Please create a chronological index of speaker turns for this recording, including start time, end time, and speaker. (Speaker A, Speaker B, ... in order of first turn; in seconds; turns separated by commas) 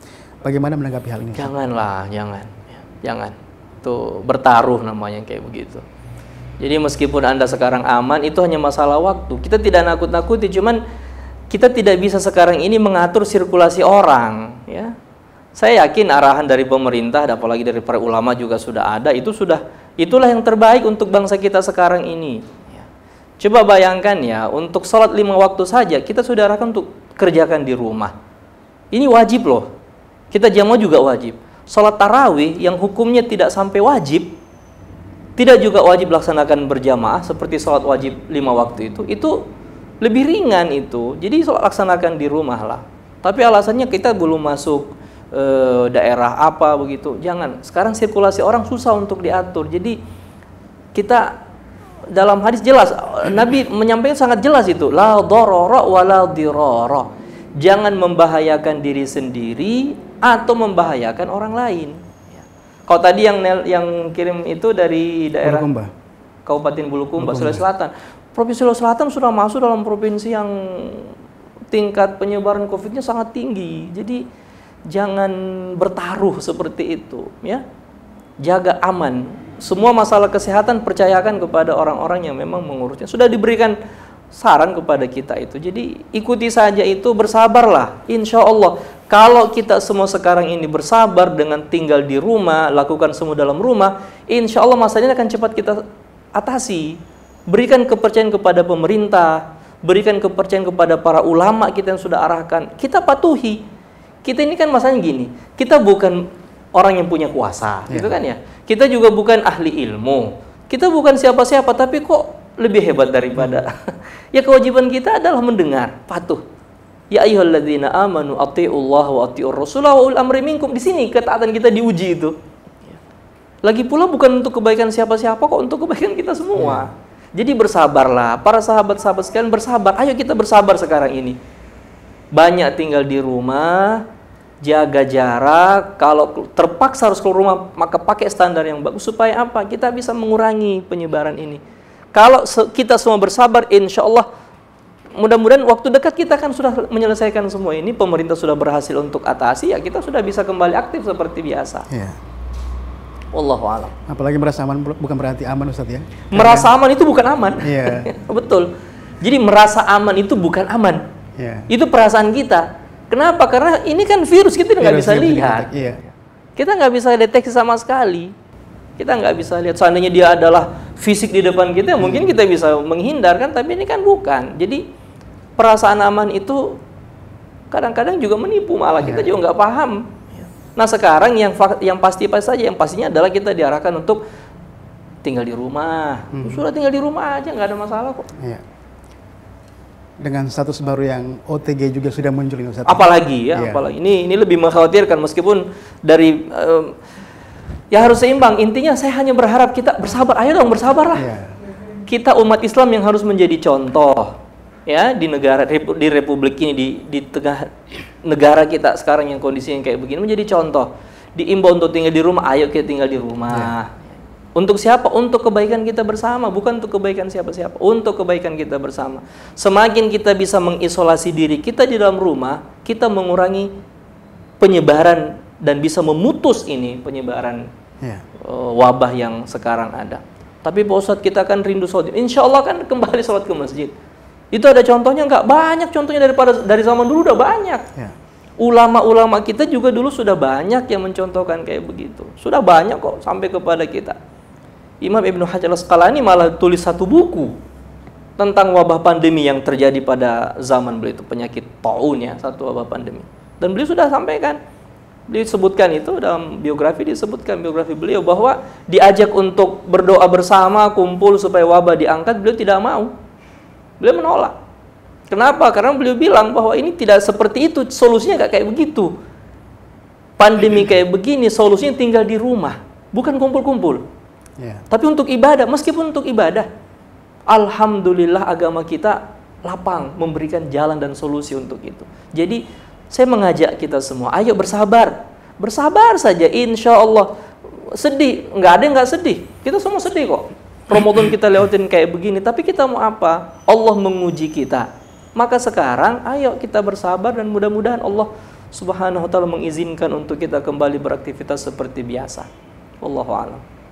Speaker A: 0.4-1.5, Speaker B: 1.3-5.8, Speaker B: 6.6-10.8, Speaker B: 11.5-14.9, Speaker B: 15.6-22.8, Speaker B: 23.4-28.1, Speaker B: 28.9-29.7, Speaker B: 30.3-34.4, Speaker B: 35.4-39.4, Speaker B: 40.0-50.0, Speaker B: 50.9-51.4, Speaker B: 52.1-62.0, Speaker B: 62.9-65.7, Speaker A: 65.4-65.9, Speaker B: 66.5-71.1, Speaker A: 67.2-67.6, Speaker B: 71.7-74.2, Speaker B: 74.9-77.6, Speaker B: 78.4-83.8, Speaker B: 84.3-95.8, Speaker B: 96.3-103.6, Speaker B: 104.2-106.2, Speaker B: 106.7-116.4, Speaker A: 107.9-108.2, Speaker B: 117.1-122.3, Speaker B: 123.6-131.4, Speaker A: 126.5-126.9, Speaker B: 132.3-134.0, Speaker B: 134.6-141.6, Speaker B: 142.1-144.3, Speaker B: 145.2-151.9, Speaker A: 151.9-152.2, Speaker B: 153.3-153.9, Speaker A: 154.1-156.7, Speaker B: 156.3-158.7, Speaker A: 157.6-158.1, Speaker B: 159.2-161.0, Speaker A: 161.4-161.7, Speaker B: 161.7-165.7, Speaker A: 164.8-166.0, Speaker B: 166.6-168.3, Speaker B: 169.0-174.8, Speaker A: 172.0-172.3, Speaker B: 175.6-176.8, Speaker B: 177.7-184.2, Speaker A: 179.0-179.3, Speaker B: 185.2-188.3, Speaker A: 186.3-186.6, Speaker A: 190.2-193.8, Speaker B: 192.8-197.0, Speaker B: 197.9-201.2, Speaker A: 201.1-201.5, Speaker B: 202.1-204.3, Speaker B: 204.9-207.7, Speaker B: 208.2-214.0, Speaker B: 214.6-223.7, Speaker B: 224.6-227.7, Speaker B: 228.4-233.9, Speaker B: 234.5-237.8, Speaker B: 238.6-244.2, Speaker B: 245.0-247.5, Speaker B: 248.4-254.6, Speaker B: 255.3-263.1, Speaker B: 264.0-264.6, Speaker B: 265.3-269.1, Speaker B: 270.4-274.0, Speaker B: 274.9-276.7, Speaker B: 277.5-287.3, Speaker B: 287.9-302.5, Speaker B: 303.0-303.6